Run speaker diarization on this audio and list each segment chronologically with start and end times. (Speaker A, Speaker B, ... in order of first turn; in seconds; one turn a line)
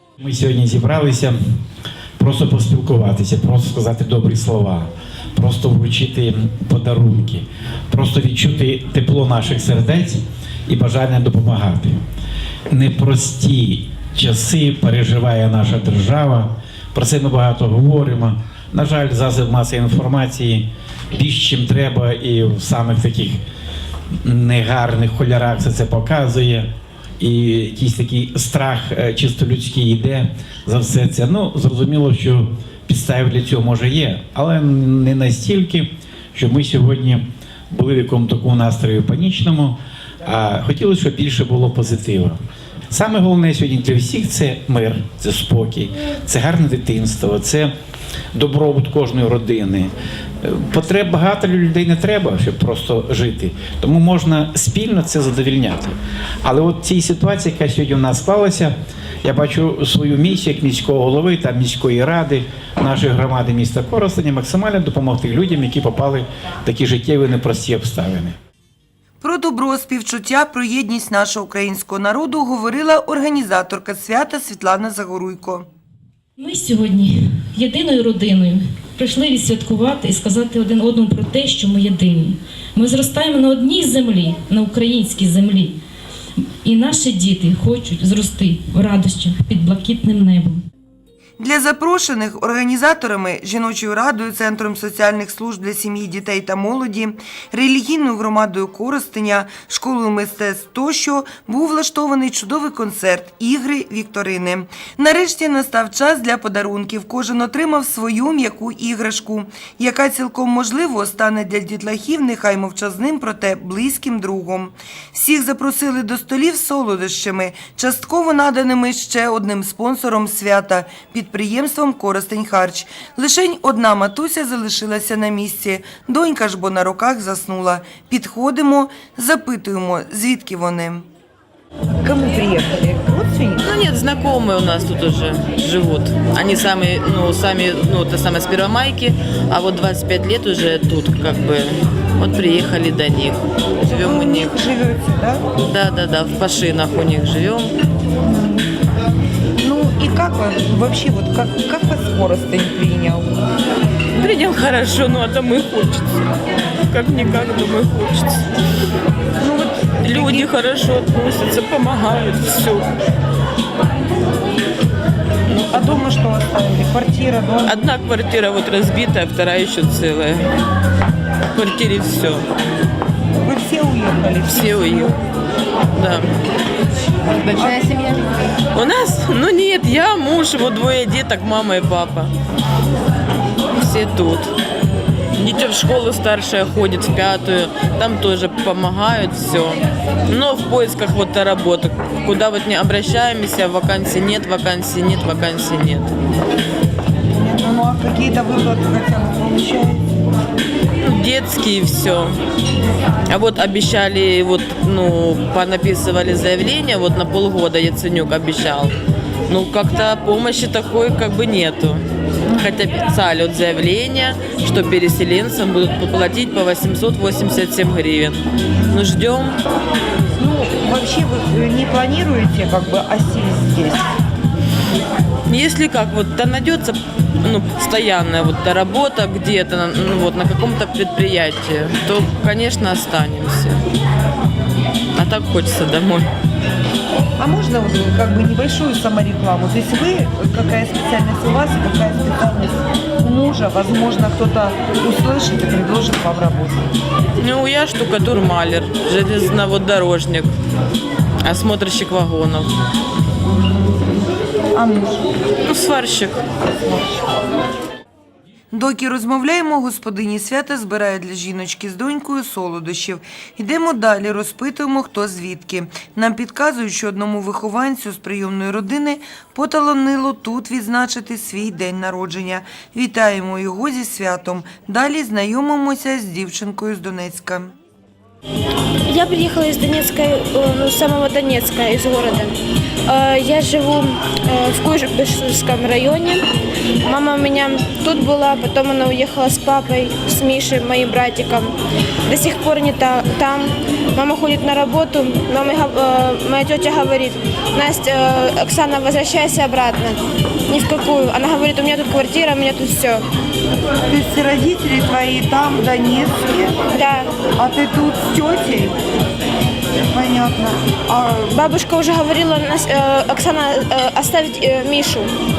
Speaker A: 0.2-1.4
Speaker A: 2.2-12.0
Speaker A: 12.7-23.4
Speaker A: 24.2-26.7
Speaker A: 27.2-42.4
Speaker A: 42.9-47.7
Speaker A: 48.3-49.9
Speaker A: 50.4-68.4
Speaker B: 69.2-75.7
Speaker C: 76.4-85.8
Speaker C: 86.6-90.7
Speaker B: 91.4-131.1
Speaker D: 132.0-133.7
Speaker E: 133.6-144.6
Speaker D: 143.8-145.4
Speaker E: 145.6-147.7
Speaker D: 148.2-148.7
Speaker D: 149.6-153.3
Speaker E: 154.2-156.3
Speaker E: 156.9-158.5
Speaker D: 159.4-160.5
Speaker E: 160.0-162.9
Speaker D: 165.5-167.8
Speaker E: 167.7-170.5
Speaker E: 171.5-172.5
Speaker D: 173.4-175.2
Speaker E: 174.5-175.2
Speaker E: 175.9-176.3
Speaker E: 177.5-178.2
Speaker D: 177.5-177.9
Speaker E: 178.7-182.3
Speaker E: 183.8-184.6
Speaker E: 185.3-196.1
Speaker D: 197.3-200.1
Speaker E: 201.0-202.4
Speaker E: 203.3-209.0
Speaker E: 209.5-219.6
Speaker D: 220.3-224.1
Speaker E: 225.5-233.8
Speaker E: 235.2-236.3
Speaker D: 237.4-246.9
Speaker E: 247.4-250.6
Speaker E: 251.4-252.7
Speaker D: 253.4-255.2
Speaker E: 255.7-256.4
Speaker D: 256.9-257.1
Speaker B: 258.7-277.7
Speaker F: 279.1-282.6
Speaker F: 283.1-286.4
Speaker F: 287.0-291.7
Speaker F: 292.3-300.2
Speaker F: 300.7-303.2
Speaker D: 304.1-306.8
Speaker F: 306.9-307.4
Speaker D: 307.5-309.0
Speaker D: 310.1-311.1
Speaker F: 311.1-315.3